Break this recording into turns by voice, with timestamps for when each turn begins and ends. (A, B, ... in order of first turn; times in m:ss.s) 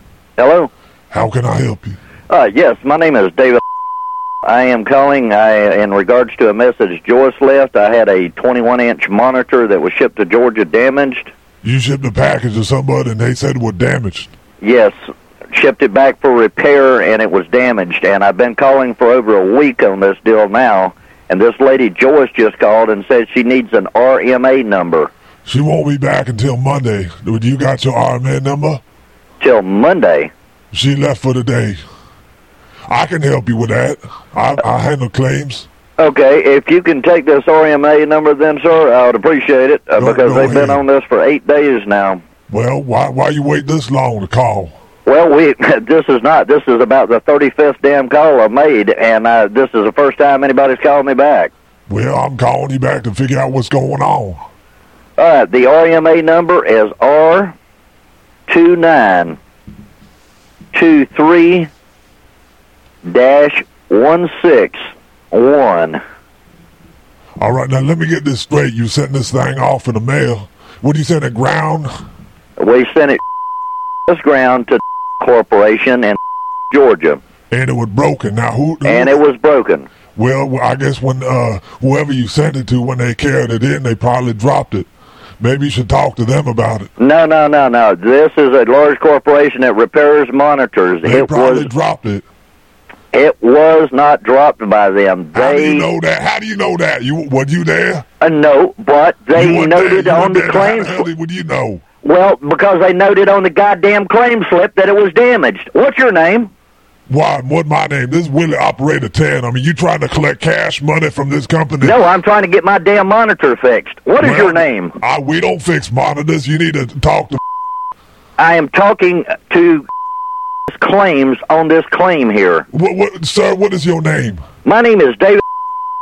0:00.4-0:00.7 A
0:01.1-0:02.0 B
0:02.3-0:03.6 A
0:04.4-0:11.3 A
0:11.6-0:14.3 B
0:14.6-0:14.9 A
0:15.5-0:25.1 A
0:25.4-0:28.8 B
0:29.4-0:30.3 A
0:30.7-0:31.8 B
0:32.9-0:35.7 B
0:36.0-0:42.2 A
0:40.0-0:40.8 B
0:42.5-0:44.7 B
0:45.0-0:51.5 A
0:51.9-0:54.5 B
0:55.2-0:57.5 A
0:58.5-0:59.4 A
1:00.7-1:01.7 A
1:03.0-1:06.0 A
1:07.4-1:11.9 B
1:12.6-1:13.2 A
1:14.1-1:16.2 A
1:16.7-1:17.2 A
1:17.5-1:19.2 B
1:18.8-1:19.9 A
1:20.2-1:24.9 B
1:25.4-1:26.9 B
1:27.0-1:31.7 A
1:31.0-1:32.2 B
1:33.1-1:35.9 A
1:35.3-1:38.0 B
1:38.2-1:41.0 A
1:39.3-1:41.8 B
1:42.0-1:46.5 A
1:47.1-1:52.0 B
1:51.8-1:55.0 A
1:54.2-1:57.4 B
1:58.4-1:59.9 A
2:00.7-2:02.6 A
2:02.7-2:04.4 B
2:04.6-2:05.4 A